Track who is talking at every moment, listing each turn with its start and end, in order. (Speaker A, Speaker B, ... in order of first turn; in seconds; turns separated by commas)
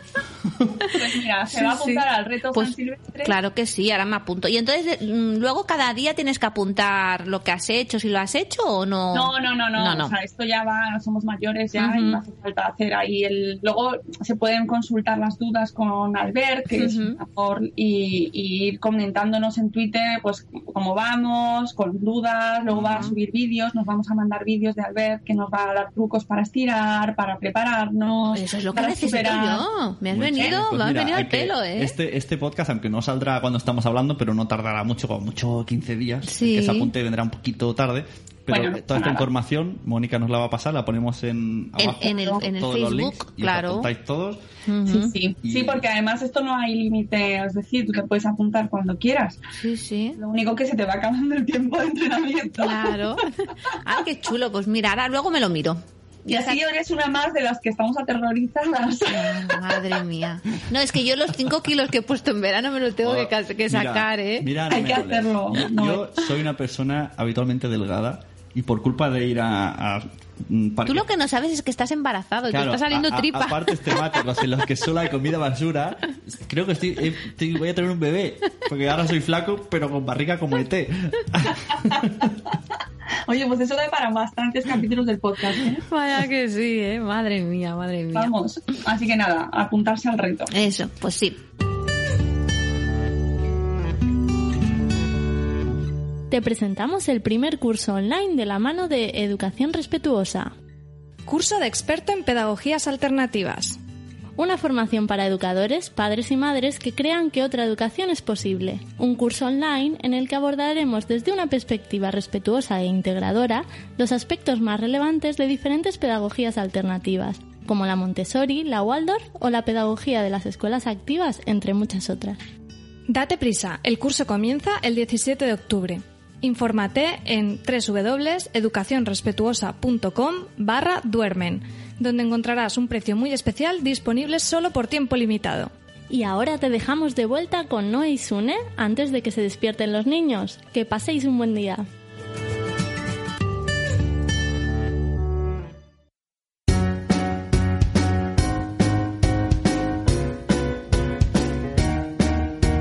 Speaker A: 0.4-0.9, Speaker B: 1.0-3.3, Speaker C: 1.5-10.1, Speaker B: 9.1-29.7, Speaker C: 11.8-12.2, Speaker C: 16.7-17.2, Speaker A: 22.7-23.1, Speaker C: 22.9-23.1, Speaker C: 28.3-31.9, Speaker A: 30.1-44.4, Speaker C: 36.2-36.9, Speaker B: 38.5-39.3, Speaker C: 41.8-43.9, Speaker C: 44.7-45.1, Speaker B: 44.9-49.4, Speaker A: 45.4-45.8, Speaker C: 49.6-50.2, Speaker B: 50.2-53.0, Speaker C: 52.6-56.6, Speaker B: 56.3-59.8, Speaker C: 59.1-64.5, Speaker A: 63.0-71.0, Speaker B: 64.7-66.1, Speaker C: 70.8-74.2, Speaker A: 72.5-82.3, Speaker B: 83.3-85.8, Speaker C: 85.9-88.3, Speaker B: 88.1-90.5, Speaker C: 90.5-91.4, Speaker D: 96.3-100.5, Speaker E: 101.2-103.8, Speaker D: 104.4-122.4, Speaker E: 123.1-135.7, Speaker D: 136.1-141.8